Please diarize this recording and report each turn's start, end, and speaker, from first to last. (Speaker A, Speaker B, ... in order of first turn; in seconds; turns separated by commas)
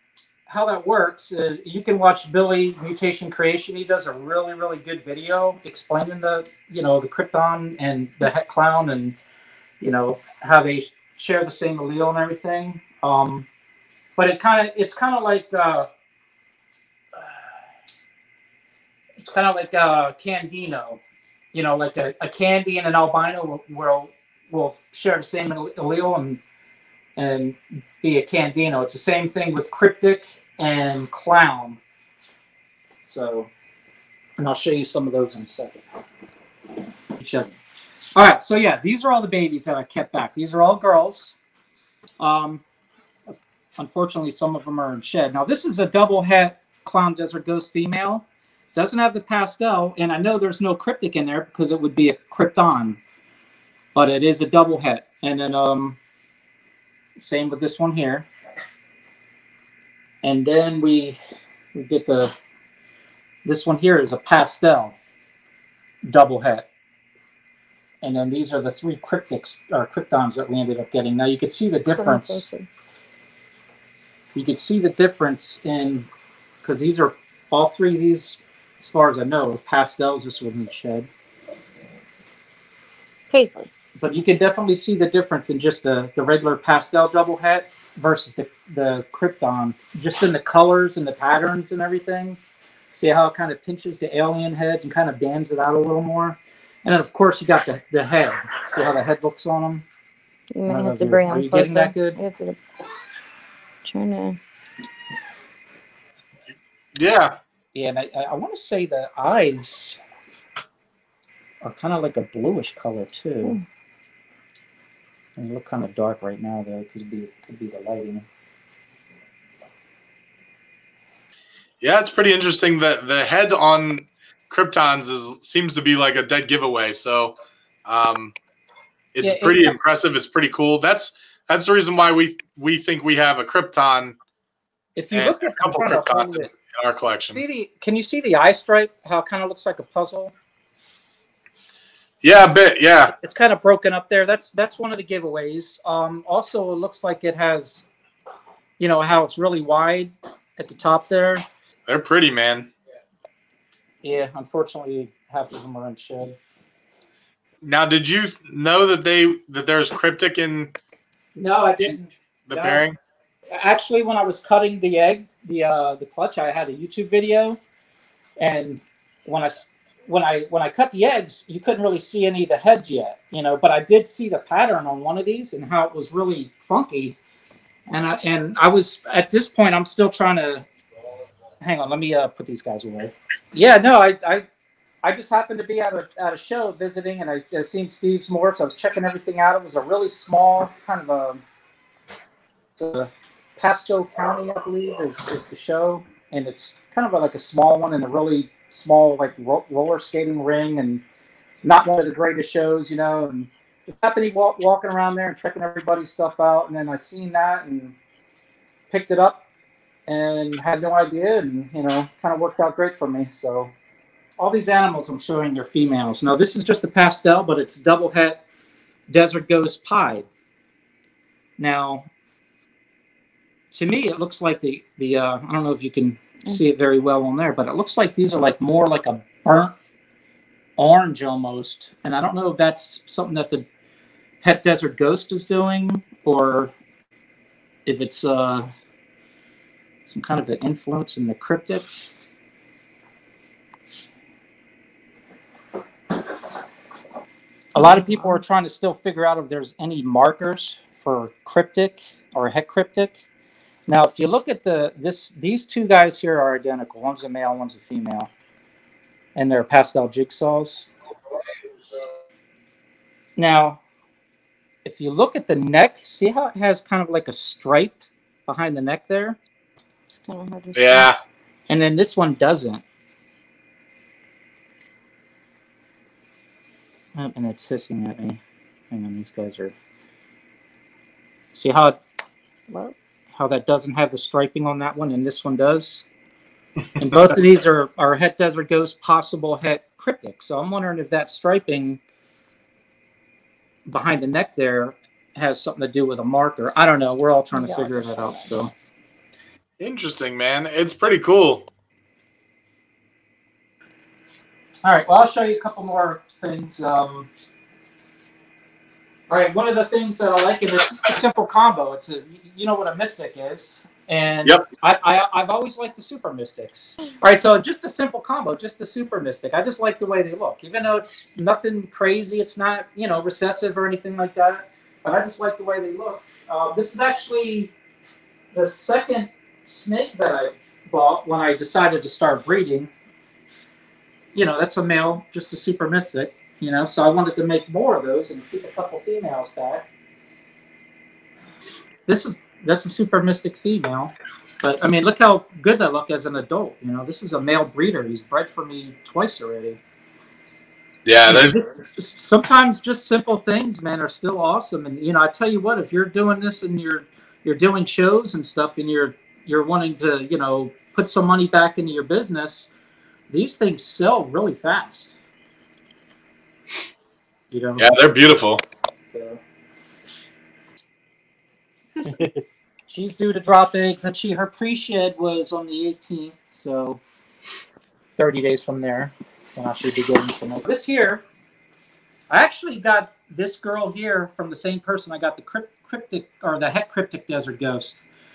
Speaker A: 0.5-9.2, Speaker A: 9.8-13.5, Speaker A: 14.2-15.9, Speaker A: 17.1-17.6, Speaker A: 19.2-21.0, Speaker A: 21.5-26.4, Speaker A: 27.2-31.8, Speaker A: 33.0-33.5, Speaker A: 34.4-35.8, Speaker A: 37.1-37.5, Speaker A: 38.1-41.4, Speaker A: 42.2-42.6, Speaker A: 43.3-53.0, Speaker A: 54.0-56.0, Speaker A: 57.2-58.3, Speaker A: 60.2-61.2, Speaker A: 61.7-62.3, Speaker A: 63.5-65.0, Speaker A: 66.1-66.7, Speaker A: 68.0-72.4, Speaker B: 72.0-72.7, Speaker A: 74.3-76.1, Speaker A: 76.6-81.1, Speaker B: 83.3-83.7, Speaker A: 84.0-92.4, Speaker A: 92.9-99.8, Speaker B: 100.5-102.6, Speaker A: 100.7-102.2, Speaker B: 103.8-104.4, Speaker C: 107.0-107.4, Speaker A: 107.7-110.0, Speaker A: 111.6-113.6, Speaker A: 115.4-118.2, Speaker C: 121.8-128.3, Speaker C: 129.1-134.2, Speaker A: 129.2-129.8, Speaker A: 135.0-136.5, Speaker C: 135.1-137.4, Speaker A: 137.3-140.3, Speaker C: 142.2-143.1, Speaker A: 143.1-147.9, Speaker A: 148.8-151.4, Speaker C: 151.9-152.7, Speaker A: 154.0-156.4, Speaker C: 157.6-160.8, Speaker A: 161.4-162.9, Speaker C: 162.5-163.0, Speaker A: 163.5-167.6, Speaker A: 168.4-177.2, Speaker A: 177.9-180.7, Speaker A: 181.6-184.5, Speaker A: 185.0-191.4, Speaker A: 192.8-201.0, Speaker A: 201.6-208.0, Speaker A: 208.9-209.4, Speaker A: 210.1-213.7, Speaker A: 214.4-218.4, Speaker A: 219.1-220.3, Speaker A: 221.6-222.1, Speaker A: 223.7-229.8, Speaker A: 230.8-233.7, Speaker A: 234.4-236.7, Speaker A: 237.9-238.7, Speaker A: 240.1-241.9, Speaker A: 247.7-253.2, Speaker A: 253.9-258.3, Speaker A: 259.4-260.9, Speaker A: 263.4-263.8, Speaker A: 264.9-269.4, Speaker B: 270.1-271.1, Speaker C: 270.8-271.2, Speaker A: 271.7-272.8, Speaker A: 277.2-278.4, Speaker A: 278.9-279.8, Speaker A: 281.5-282.0, Speaker B: 282.7-282.9, Speaker A: 283.3-286.0, Speaker A: 287.0-292.0, Speaker A: 293.9-298.7, Speaker B: 297.5-298.5, Speaker C: 299.8-301.7, Speaker A: 304.8-307.3, Speaker A: 309.3-327.7, Speaker A: 328.5-332.9, Speaker A: 334.3-339.9, Speaker A: 342.1-349.8, Speaker C: 351.1-351.6, Speaker A: 351.3-362.7, Speaker A: 363.3-365.1, Speaker A: 367.5-367.9, Speaker C: 367.8-368.6, Speaker A: 369.1-369.4, Speaker A: 372.9-377.0, Speaker A: 378.2-381.2, Speaker A: 382.3-388.0